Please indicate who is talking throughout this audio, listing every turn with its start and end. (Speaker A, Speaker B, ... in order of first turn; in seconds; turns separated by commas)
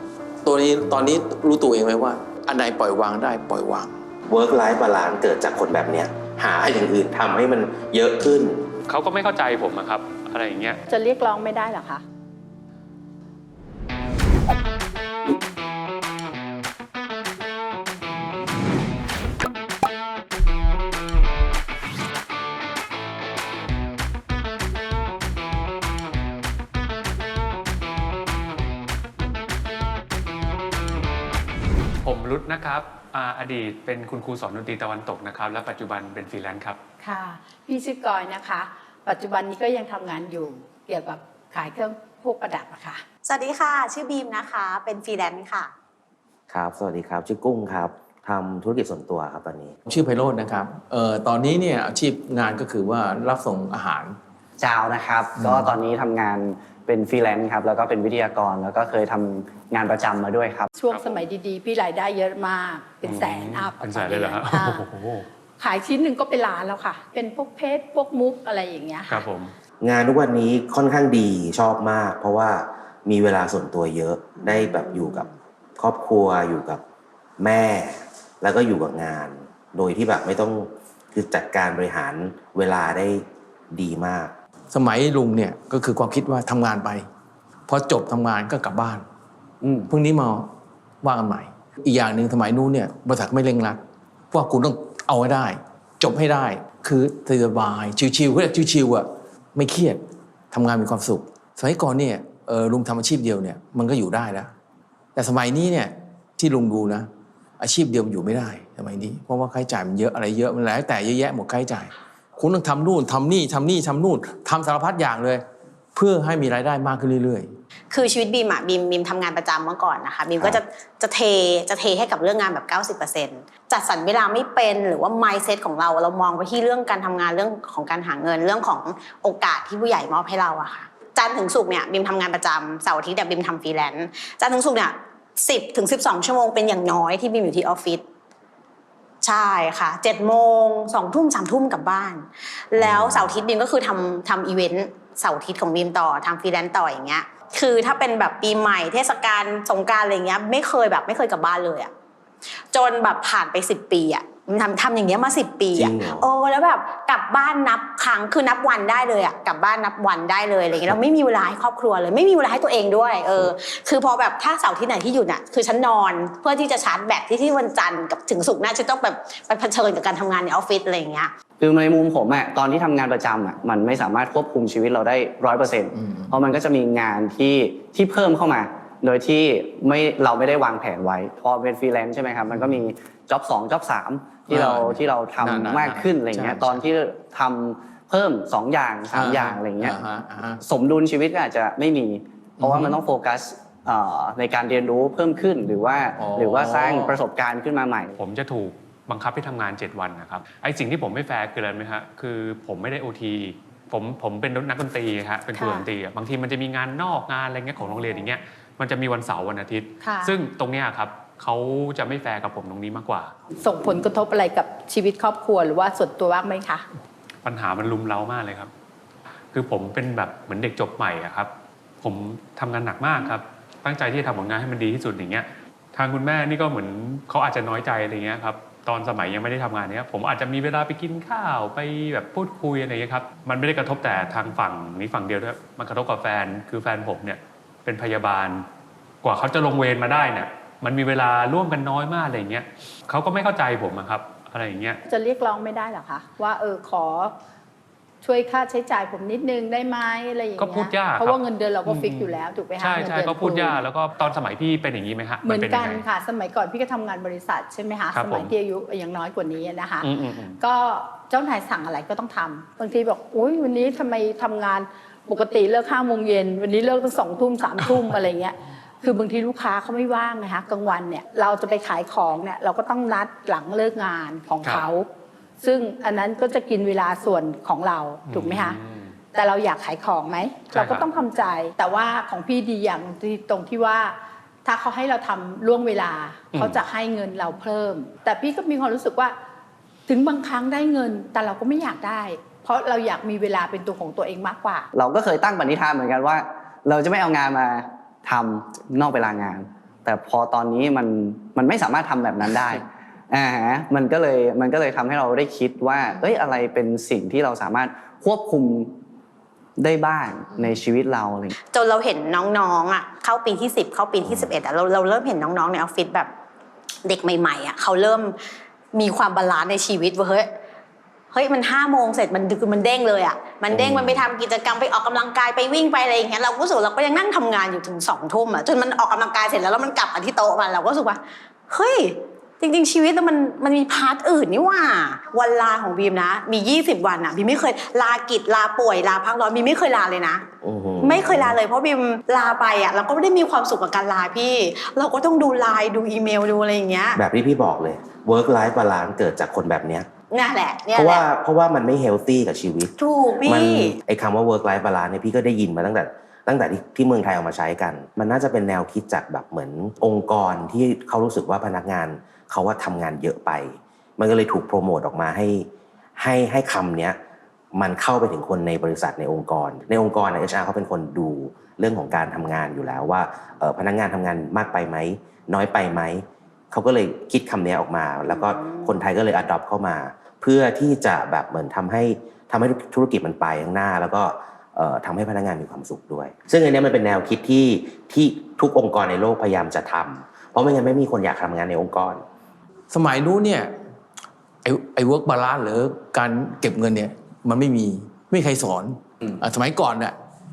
Speaker A: 0.4-3.9, Speaker B: 4.3-8.7, Speaker C: 8.9-10.8, Speaker D: 10.9-12.0, Speaker C: 32.0-36.8, Speaker D: 37.0-43.0, Speaker E: 43.2-45.7, Speaker B: 46.5-49.8, Speaker A: 49.9-54.2, Speaker F: 54.6-60.7, Speaker A: 55.4-55.7, Speaker D: 60.8-64.9, Speaker C: 60.9-61.2, Speaker C: 63.0-65.3, Speaker D: 65.6-69.2, Speaker C: 69.1-69.5, Speaker B: 69.8-75.3, Speaker B: 75.8-76.8, Speaker B: 77.4-84.3, Speaker A: 84.7-87.0, Speaker A: 87.7-89.0, Speaker F: 89.6-89.9, Speaker A: 89.9-90.5, Speaker A: 91.0-104.5, Speaker A: 105.1-115.4, Speaker A: 115.9-117.5, Speaker E: 117.9-138.0, Speaker E: 139.2-151.9, Speaker B: 142.9-143.2, Speaker E: 152.7-171.3, Speaker B: 155.7-156.2, Speaker F: 171.6-190.0, Speaker A: 175.9-176.3, Speaker A: 182.5-182.8, Speaker A: 184.5-186.8, Speaker A: 189.1-190.6, Speaker F: 190.6-198.2, Speaker A: 192.6-193.0, Speaker A: 196.2-197.2, Speaker C: 198.2-213.3, Speaker D: 205.5-205.9, Speaker D: 210.0-210.3, Speaker D: 213.6-216.8, Speaker C: 217.4-218.7, Speaker C: 219.5-221.5, Speaker C: 222.0-238.6, Speaker C: 239.2-245.0, Speaker D: 245.1-247.3, Speaker D: 248.2-253.8, Speaker C: 250.6-256.0, Speaker D: 255.4-260.1, Speaker C: 258.1-258.5, Speaker C: 260.0-260.6, Speaker D: 260.6-275.1, Speaker D: 275.6-278.8, Speaker C: 278.3-279.1, Speaker D: 279.3-289.4, Speaker C: 280.7-281.1, Speaker C: 286.5-286.8, Speaker D: 290.1-294.9, Speaker F: 294.9-308.9, Speaker F: 309.8-311.5, Speaker E: 311.7-316.3, Speaker E: 317.0-318.4, Speaker E: 318.9-320.5, Speaker E: 321.3-340.4, Speaker B: 323.7-324.2, Speaker B: 340.6-341.6, Speaker E: 341.0-347.2, Speaker B: 347.1-350.1, Speaker E: 350.3-351.2, Speaker B: 350.9-367.2, Speaker E: 353.0-354.0, Speaker B: 367.7-392.2, Speaker E: 378.3-378.9, Speaker A: 392.9-393.7, Speaker A: 394.6-400.1